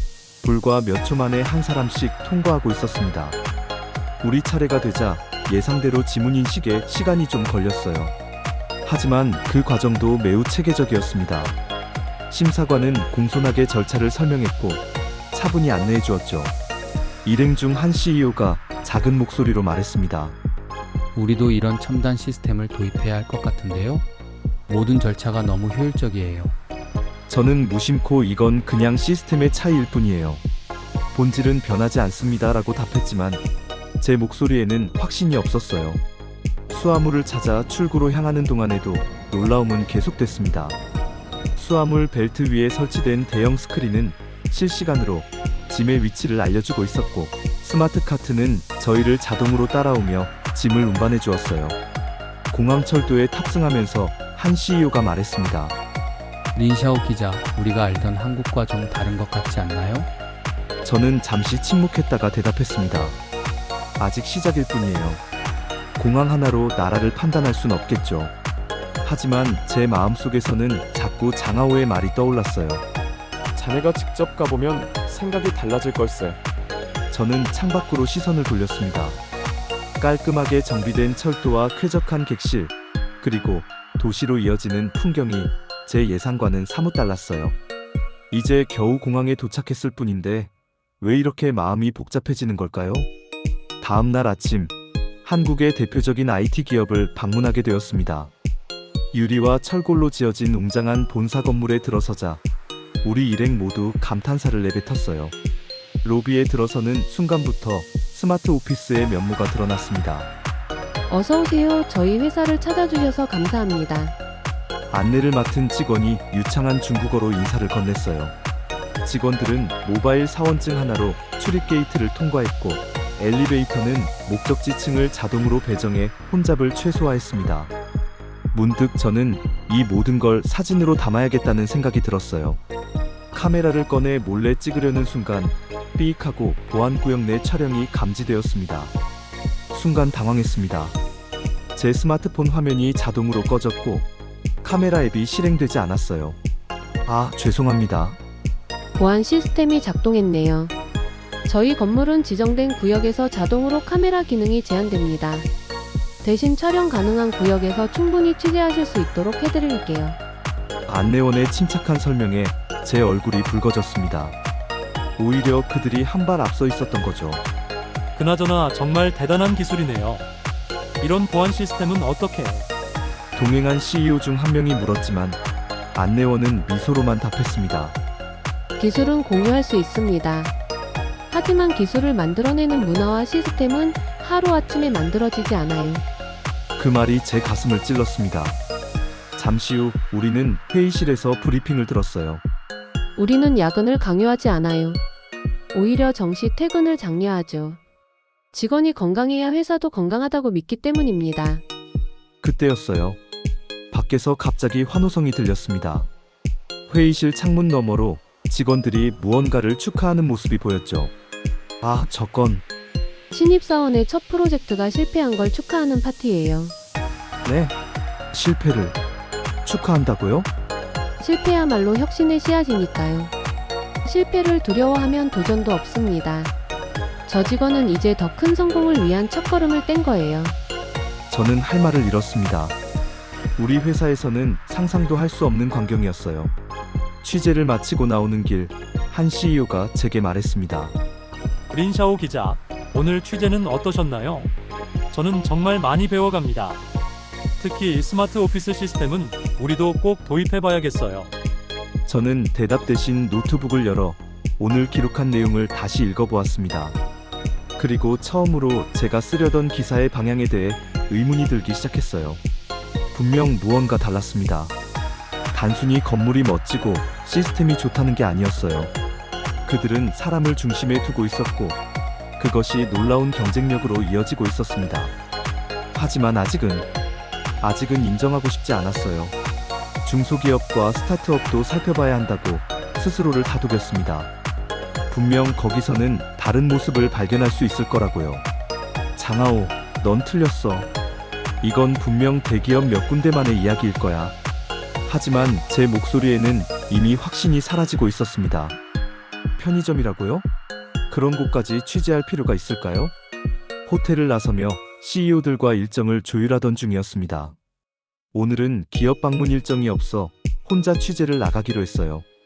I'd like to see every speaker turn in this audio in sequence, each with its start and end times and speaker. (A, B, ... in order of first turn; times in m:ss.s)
0:00.4-0:03.4 A
0:04.2-0:08.2 A
0:08.8-0:11.6 A
0:12.3-0:16.6 A
0:17.2-0:20.4 A
0:21.1-0:24.1 B
0:24.7-0:26.6 B
0:27.3-0:30.4 A
0:31.1-0:33.4 A
0:34.0-0:36.0 A
0:36.7-0:40.8 A
0:41.6-0:51.8 A
0:52.5-0:55.8 A
0:56.5-1:00.1 B
1:00.8-1:03.2 A
1:04.0-1:05.2 A
1:06.0-1:08.3 A
1:09.0-1:12.8 A
1:13.6-1:16.4 C
1:17.1-1:19.2 A
1:20.0-1:27.6 A
1:28.3-1:33.1 A
1:33.8-1:38.3 A
1:39.1-1:42.4 A
1:43.0-1:45.3 A
1:46.0-1:50.3 A
1:51.1-1:54.2 D
1:54.9-1:58.4 A
1:59.0-2:07.7 A
2:08.5-2:12.6 A
2:13.3-2:19.0 A
2:19.7-2:21.0 A
2:21.8-2:24.1 A
2:24.6-2:26.4 A
2:27.1-2:28.2 A
2:29.0-2:30.7 D
2:31.4-2:35.5 D
2:36.2-2:40.2 D
2:40.9-2:44.4 A
2:45.2-2:47.4 A
2:48.1-2:50.3 E
2:51.0-2:52.7 E
2:53.4-2:55.4 A
2:55.9-2:58.0 A
2:58.8-3:00.5 D
3:01.3-3:06.0 D
3:06.8-3:08.6 A
3:09.4-3:12.4 A
3:13.2-3:15.0 D
3:15.7-3:17.8 D
3:18.5-3:21.6 D
3:22.4-3:23.2 A
3:23.9-3:26.1 A
3:26.9-3:31.1 A
3:31.8-3:32.6 A
3:33.3-3:36.8 D
3:37.4-3:37.7 A
3:38.3-3:39.0 A
3:39.6-3:40.5 A
3:41.2-3:43.3 D
3:44.0-3:46.5 D
3:47.3-3:50.6 D
3:51.3-3:52.8 A
3:53.6-3:56.5 A
3:57.2-4:01.0 A
4:01.7-4:04.5 E
4:05.1-4:06.8 E
4:07.6-4:11.3 E
4:12.1-4:17.0 A
4:17.8-4:22.4 A
4:23.1-4:24.8 A
4:25.5-4:28.9 A
4:29.7-4:31.8 A
4:32.4-4:35.2 A
4:35.9-4:36.9 A
4:37.6-4:39.4 A
4:40.0-4:44.3 A
4:45.1-4:48.5 A
4:49.2-4:50.9 A
4:51.6-4:54.4 A
4:55.0-4:58.8 A
4:59.6-5:00.5 A
5:01.1-5:03.1 A
5:03.9-5:07.6 A
5:08.3-5:12.3 A